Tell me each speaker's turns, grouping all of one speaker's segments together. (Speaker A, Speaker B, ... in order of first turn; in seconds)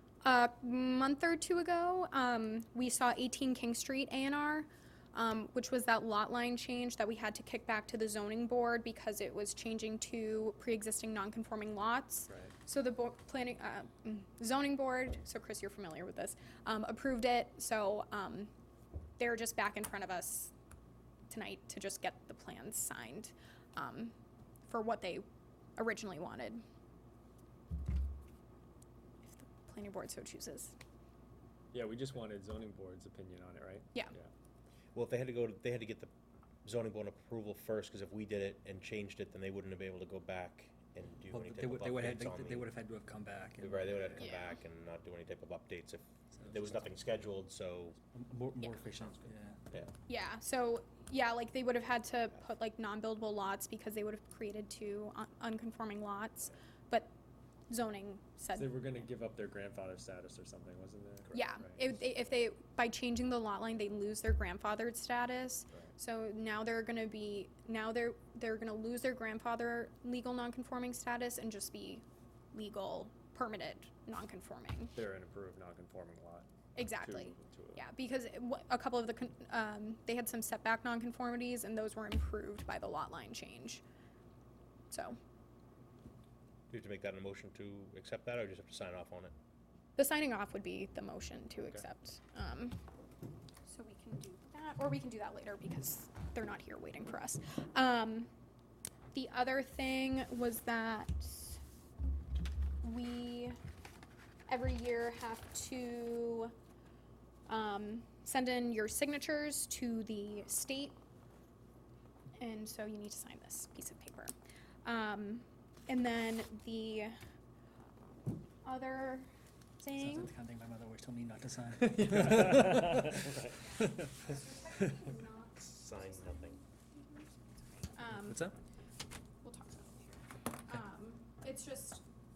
Speaker A: 0.2-18.5, 19.2-20.5, 21.3-24.1, 24.7-25.2, 25.8-26.6, 29.2-30.7, 44.2-44.6, 50.1-57.1, 57.7-58.8, 61.3-75.0, 76.7-83.8, 84.9-85.2, 90.0-92.8, 93.7-98.3, 99.1-101.6, 102.8-103.6, 104.5-106.5, 107.5-111.0, 112.4-114.3, 114.8-117.2, 118.6-120.3, 123.8-127.3, 127.9-128.5, 129.4-132.0
Speaker B: 12.3-12.5, 31.7-34.3, 58.5-61.9, 74.9-77.8, 121.8-123.5
Speaker C: 35.0-36.1, 36.6-42.7, 43.6-48.0, 86.7-89.3, 125.6-126.6
Speaker D: 41.3-44.2, 46.4-46.8, 48.1-49.6, 119.9-123.2, 128.1-128.6